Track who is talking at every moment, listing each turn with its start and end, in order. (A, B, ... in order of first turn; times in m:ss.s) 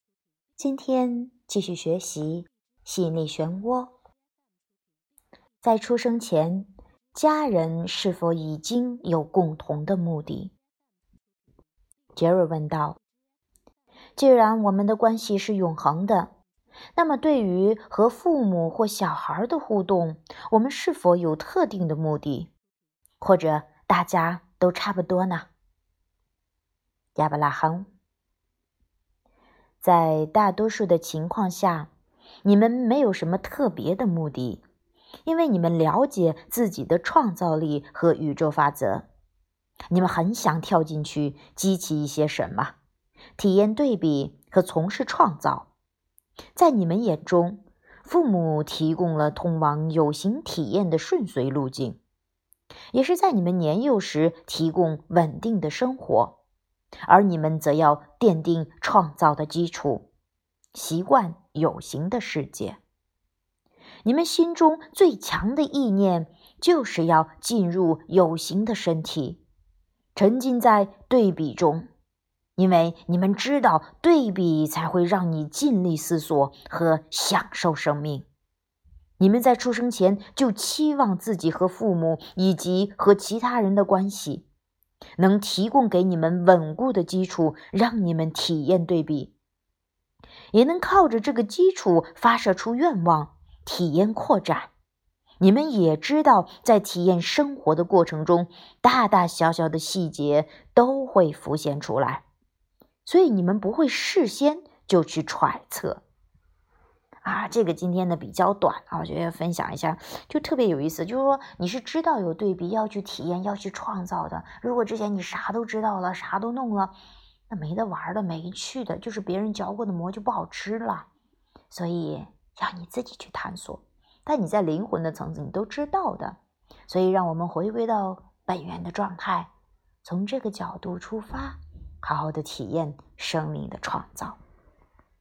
0:00.6-0:03.9 A
0:05.6-0:10.5 A
0:12.1-0:13.0 A
0:14.2-0:16.3 A
0:16.9-0:22.5 A
0:23.2-0:25.5 A
0:27.1-0:27.9 A
0:29.8-0:31.9 A
0:32.4-0:34.6 A
0:35.2-0:39.0 A
0:39.9-0:42.7 A
0:43.4-0:45.7 A
0:46.5-0:52.0 A
0:52.9-0:56.4 A
0:57.1-1:00.1 A
1:00.7-1:02.8 A
1:04.0-1:09.4 A
1:10.1-1:11.9 A
1:12.6-1:18.2 A
1:19.2-1:24.4 A
1:25.2-1:29.3 A
1:30.5-1:34.7 A
1:35.4-1:42.2 A
1:43.0-1:46.0 A
1:47.2-1:56.9 A
1:57.5-2:01.1 A
2:01.7-2:09.5 A
2:10.0-2:14.4 A